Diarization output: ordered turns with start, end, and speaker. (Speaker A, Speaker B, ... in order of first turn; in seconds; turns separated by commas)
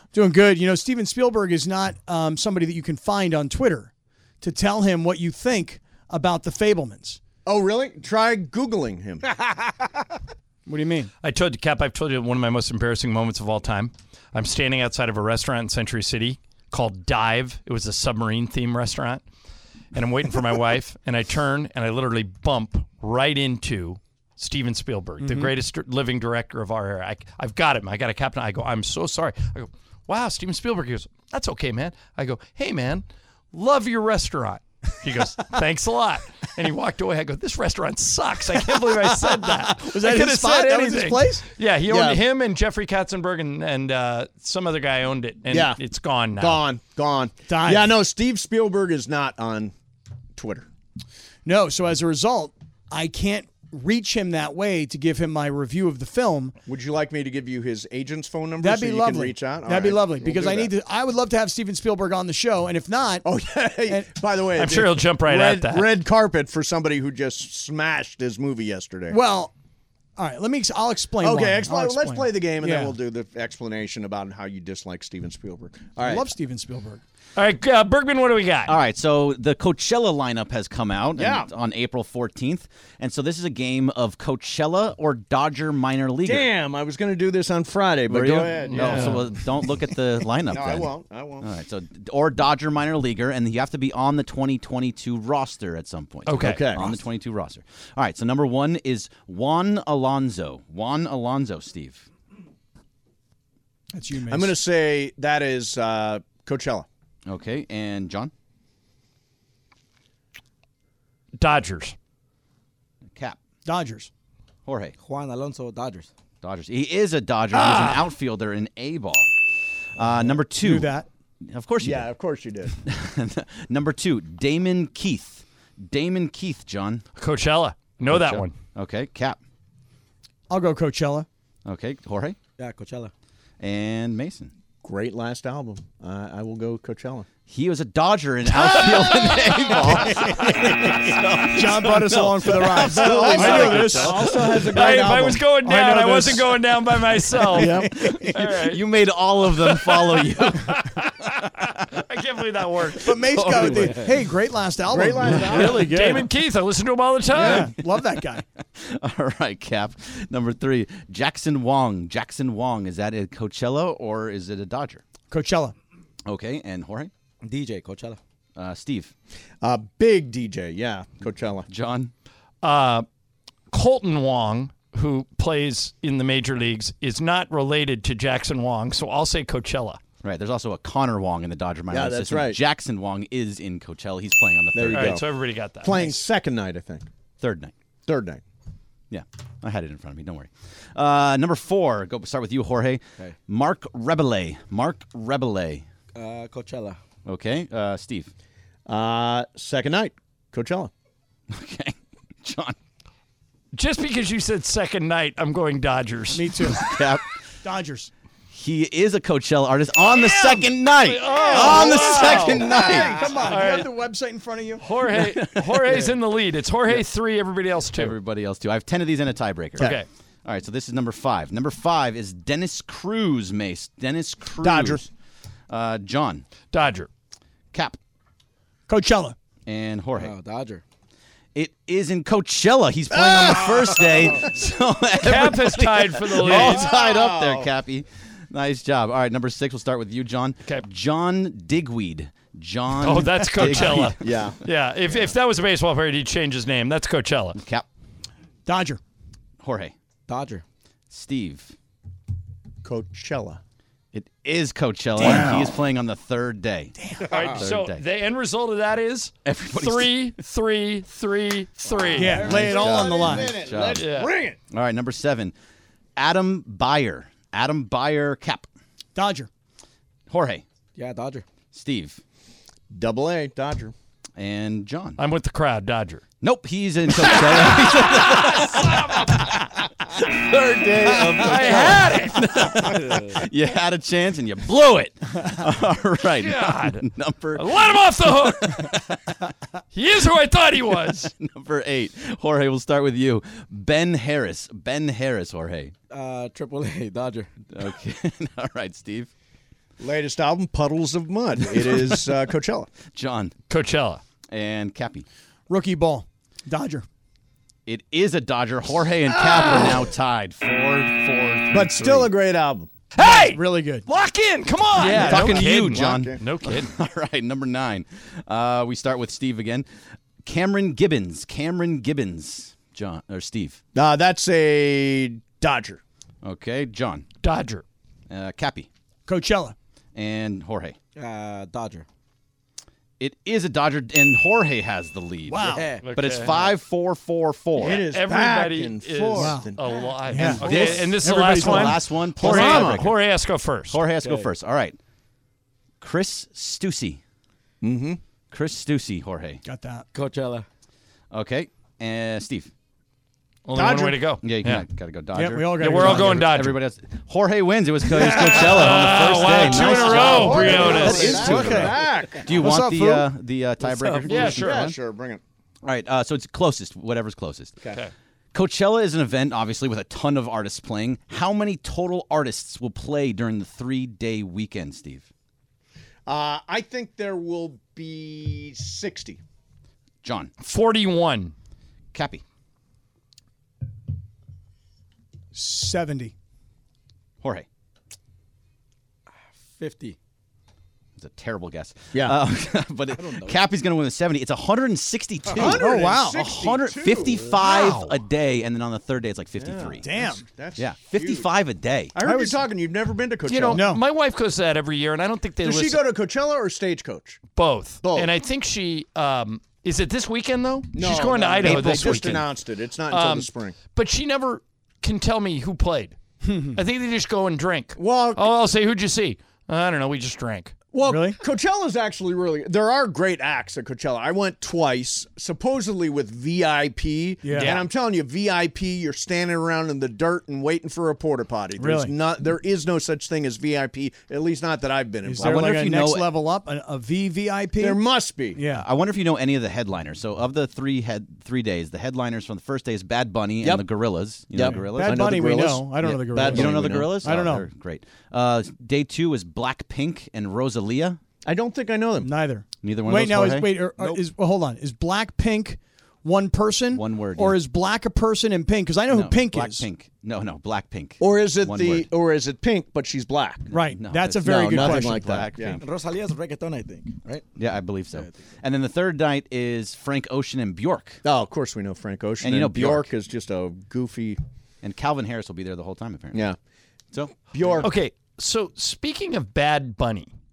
Speaker A: 0.1-7.2, Speaker B: 7.5-9.3, Speaker A: 10.7-11.1, Speaker C: 11.2-19.2, Speaker C: 19.9-46.6, Speaker A: 25.2-25.5, Speaker A: 39.1-41.5, Speaker B: 41.9-42.2, Speaker B: 45.5-45.8, Speaker B: 46.4-49.7, Speaker A: 47.5-47.9, Speaker B: 50.4-50.7, Speaker A: 51.5-56.5, Speaker B: 56.7-60.7, Speaker A: 58.6-63.2, Speaker B: 63.2-69.2, Speaker A: 63.9-64.2, Speaker C: 64.6-65.9, Speaker A: 69.1-69.5, Speaker A: 70.2-73.0, Speaker B: 71.2-76.3, Speaker A: 76.0-77.0, Speaker C: 77.4-78.7, Speaker D: 78.7-86.5, Speaker B: 81.2-81.5, Speaker B: 86.2-89.5, Speaker D: 88.1-102.1, Speaker C: 88.7-89.2, Speaker B: 90.5-91.5, Speaker C: 96.3-96.7, Speaker B: 96.3-97.0, Speaker A: 103.9-104.6, Speaker B: 104.3-106.9, Speaker D: 107.3-108.3, Speaker C: 111.4-112.0, Speaker A: 113.7-114.1, Speaker D: 114.7-115.0, Speaker E: 115.0-116.1, Speaker D: 116.4-119.3, Speaker B: 117.5-118.0, Speaker D: 120.0-120.9, Speaker A: 120.3-121.1, Speaker D: 121.4-122.1, Speaker B: 121.8-122.7, Speaker D: 122.7-127.0, Speaker C: 127.2-128.6, Speaker D: 128.1-129.4, Speaker A: 130.5-131.3, Speaker D: 131.7-132.4, Speaker E: 132.6-133.1, Speaker D: 133.6-134.5, Speaker B: 134.8-137.3, Speaker D: 137.5-144.2, Speaker B: 138.6-140.7, Speaker A: 141.5-144.5, Speaker B: 142.5-145.5, Speaker C: 143.3-148.8, Speaker A: 145.6-146.6, Speaker A: 147.5-148.4, Speaker D: 148.5-150.9, Speaker C: 150.5-153.1, Speaker A: 153.0-156.3, Speaker D: 153.2-153.9, Speaker E: 153.5-154.1, Speaker B: 154.9-156.0, Speaker C: 155.3-157.7, Speaker A: 157.3-158.4, Speaker D: 157.4-157.7, Speaker D: 158.8-165.0, Speaker A: 165.3-165.8, Speaker D: 166.2-167.1, Speaker E: 167.4-168.2, Speaker D: 168.6-169.1, Speaker B: 169.6-171.7, Speaker D: 171.7-172.1, Speaker C: 172.6-173.1, Speaker C: 173.7-180.0, Speaker D: 180.2-185.2, Speaker B: 181.9-182.6, Speaker B: 184.7-185.3, Speaker C: 184.9-185.9, Speaker B: 185.8-187.1, Speaker D: 187.4-187.7, Speaker B: 188.1-188.4, Speaker D: 189.1-195.8, Speaker E: 196.2-197.0, Speaker D: 197.2-198.3, Speaker B: 198.9-200.9, Speaker D: 201.5-202.8, Speaker C: 203.8-206.6, Speaker A: 206.3-207.0, Speaker D: 206.6-207.2, Speaker A: 207.6-208.1, Speaker D: 208.5-213.4, Speaker C: 210.1-212.7, Speaker A: 211.3-214.8, Speaker B: 211.6-213.4, Speaker C: 213.4-213.9, Speaker C: 214.8-218.2, Speaker D: 215.2-216.1, Speaker D: 217.9-225.0, Speaker C: 219.8-220.1, Speaker B: 224.6-225.1, Speaker D: 225.7-226.4, Speaker C: 226.7-227.1, Speaker A: 228.9-229.4, Speaker D: 229.7-230.3, Speaker E: 230.2-230.8, Speaker D: 231.6-244.5, Speaker B: 233.1-234.5, Speaker C: 235.2-236.9, Speaker B: 236.4-237.7, Speaker C: 243.0-247.6, Speaker B: 244.2-245.3, Speaker D: 247.6-247.9, Speaker A: 248.7-249.0, Speaker D: 249.6-249.9, Speaker E: 250.3-250.6, Speaker D: 251.1-251.7, Speaker B: 252.8-253.6, Speaker D: 254.1-258.0, Speaker B: 255.2-255.5, Speaker A: 257.0-257.3, Speaker C: 257.2-262.5, Speaker E: 257.3-257.6, Speaker D: 259.4-260.3, Speaker D: 261.9-264.1, Speaker A: 262.2-263.6, Speaker B: 262.2-264.6, Speaker C: 263.9-264.3, Speaker D: 264.7-265.5, Speaker D: 266.2-268.7, Speaker A: 269.1-269.5, Speaker D: 270.3-270.6, Speaker E: 271.0-271.4, Speaker D: 271.7-272.2, Speaker B: 272.9-273.9, Speaker D: 274.4-275.2, Speaker C: 275.2-276.2, Speaker D: 276.4-289.1, Speaker C: 281.4-282.5, Speaker E: 282.8-283.4, Speaker C: 286.4-288.9, Speaker C: 289.9-291.3, Speaker D: 291.1-295.9, Speaker E: 296.1-297.7, Speaker D: 297.7-299.3, Speaker B: 300.0-302.9, Speaker D: 301.7-302.3, Speaker D: 303.1-303.6, Speaker C: 303.7-304.2, Speaker D: 304.5-305.3, Speaker A: 305.7-307.1, Speaker D: 307.9-312.3, Speaker B: 309.3-310.0, Speaker B: 311.7-312.9, Speaker C: 313.1-316.9, Speaker A: 313.2-314.1, Speaker A: 314.9-315.2, Speaker D: 315.0-319.9, Speaker B: 315.0-316.4, Speaker D: 320.4-323.8, Speaker B: 323.9-326.0, Speaker D: 326.4-327.2, Speaker C: 327.4-327.8, Speaker D: 328.3-328.9, Speaker A: 329.3-329.8, Speaker D: 330.1-331.0, Speaker E: 331.2-332.1, Speaker D: 333.2-338.1, Speaker A: 335.5-335.9, Speaker E: 335.6-336.8, Speaker C: 336.0-336.5, Speaker B: 337.8-341.0, Speaker C: 337.8-344.0, Speaker A: 339.4-339.7, Speaker A: 340.3-342.1, Speaker D: 340.6-343.2, Speaker B: 342.4-343.1, Speaker D: 343.9-345.0, Speaker E: 344.2-344.5, Speaker D: 346.0-347.2, Speaker B: 347.8-348.2, Speaker D: 348.5-349.6, Speaker A: 349.6-350.1, Speaker E: 350.1-350.7, Speaker D: 351.3-352.7, Speaker C: 353.7-354.9, Speaker B: 353.7-354.2, Speaker D: 354.4-365.0, Speaker A: 355.3-356.5, Speaker C: 355.8-356.8, Speaker A: 358.1-359.1, Speaker C: 358.3-361.8, Speaker B: 359.6-362.6, Speaker A: 360.2-362.0, Speaker E: 360.6-361.4, Speaker A: 362.6-363.3, Speaker E: 363.8-364.5, Speaker C: 364.2-364.8, Speaker B: 364.3-365.4, Speaker D: 365.8-367.8, Speaker D: 368.5-375.3, Speaker B: 376.3-379.4, Speaker D: 380.2-380.5, Speaker C: 380.6-381.5, Speaker D: 382.1-382.4, Speaker A: 385.5-386.3, Speaker D: 387.4-387.7, Speaker E: 389.6-390.2, Speaker D: 391.2-400.1, Speaker E: 393.1-393.6, Speaker E: 395.5-395.8, Speaker B: 395.5-397.5, Speaker A: 395.8-396.4, Speaker C: 397.6-398.2, Speaker B: 399.6-401.5, Speaker A: 400.0-400.4, Speaker D: 400.8-402.1, Speaker B: 402.1-403.9, Speaker A: 402.2-402.6, Speaker C: 403.5-406.0, Speaker A: 403.7-404.0, Speaker B: 405.6-407.4, Speaker C: 407.6-412.5, Speaker B: 408.0-408.3, Speaker B: 410.9-413.8, Speaker D: 411.6-412.4, Speaker C: 413.1-416.2, Speaker A: 416.4-416.8, Speaker C: 416.7-420.7, Speaker B: 418.0-418.6, Speaker B: 420.9-435.8, Speaker A: 421.1-421.4, Speaker A: 427.4-427.8, Speaker C: 427.5-427.9, Speaker A: 431.8-432.1, Speaker A: 435.2-438.0, Speaker D: 435.4-436.3, Speaker B: 437.8-438.6, Speaker A: 438.6-438.9, Speaker D: 438.7-445.4, Speaker B: 444.5-447.4, Speaker A: 444.6-447.7, Speaker D: 446.3-451.2, Speaker B: 451.4-452.3, Speaker A: 452.2-459.9, Speaker D: 452.8-454.2, Speaker D: 456.9-457.6, Speaker D: 459.1-462.1, Speaker B: 461.2-463.7, Speaker A: 463.7-465.4, Speaker D: 463.7-465.8, Speaker B: 464.4-465.8, Speaker E: 465.5-467.5, Speaker D: 467.6-471.2, Speaker E: 468.1-468.4, Speaker B: 471.2-474.4, Speaker D: 472.4-473.1, Speaker D: 474.8-476.5, Speaker B: 477.5-477.9, Speaker C: 477.8-480.3